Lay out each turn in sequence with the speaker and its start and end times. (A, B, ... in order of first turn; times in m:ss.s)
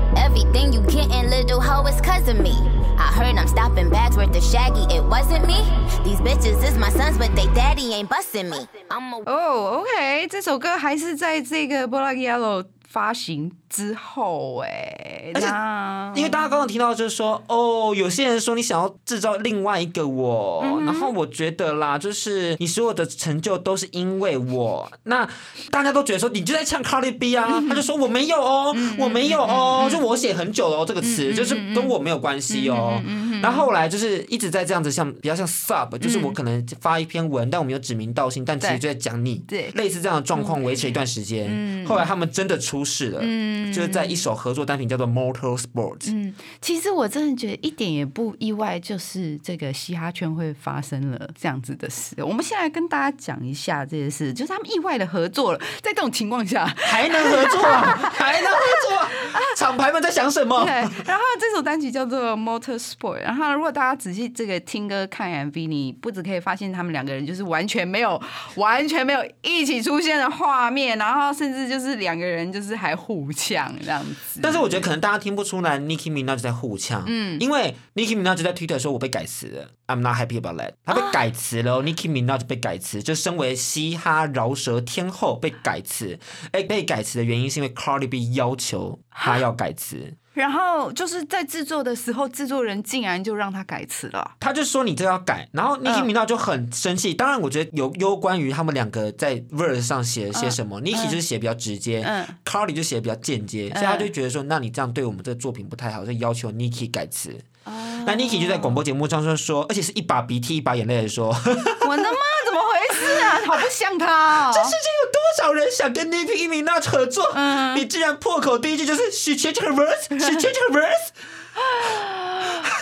0:00.2-0:09.2 A
0:09.3-0:16.6 B
0:16.1-0:46.1 C
0:20.6-0:21.1 B
0:27.5-0:27.8 B
0:28.7-0:30.0 B
0:31.0-0:32.0 B
0:32.5-0:33.7 B
0:36.0-0:36.4 B
0:39.5-0:39.7 B
0:40.4-0:40.6 B
0:41.5-0:42.0 B
0:43.2-0:44.2 B
0:46.0-0:59.5 B
0:56.8-1:01.0 C
1:00.6-1:14.9 B
1:14.4-1:30.2 C
1:17.1-1:17.4 B
1:20.9-1:21.2 B
1:29.2-1:29.4 B
1:30.4-1:34.3 B
1:34.4-1:47.5 C
1:40.3-1:41.2 B
1:42.0-1:42.4 B
1:43.7-1:44.1 B
1:47.7-1:48.8 B
1:48.0-1:52.2 C
1:51.8-1:54.8 B
1:52.9-1:53.6 C
1:54.4-2:01.1 C
1:57.3-1:57.8 B
2:01.6-2:02.7 B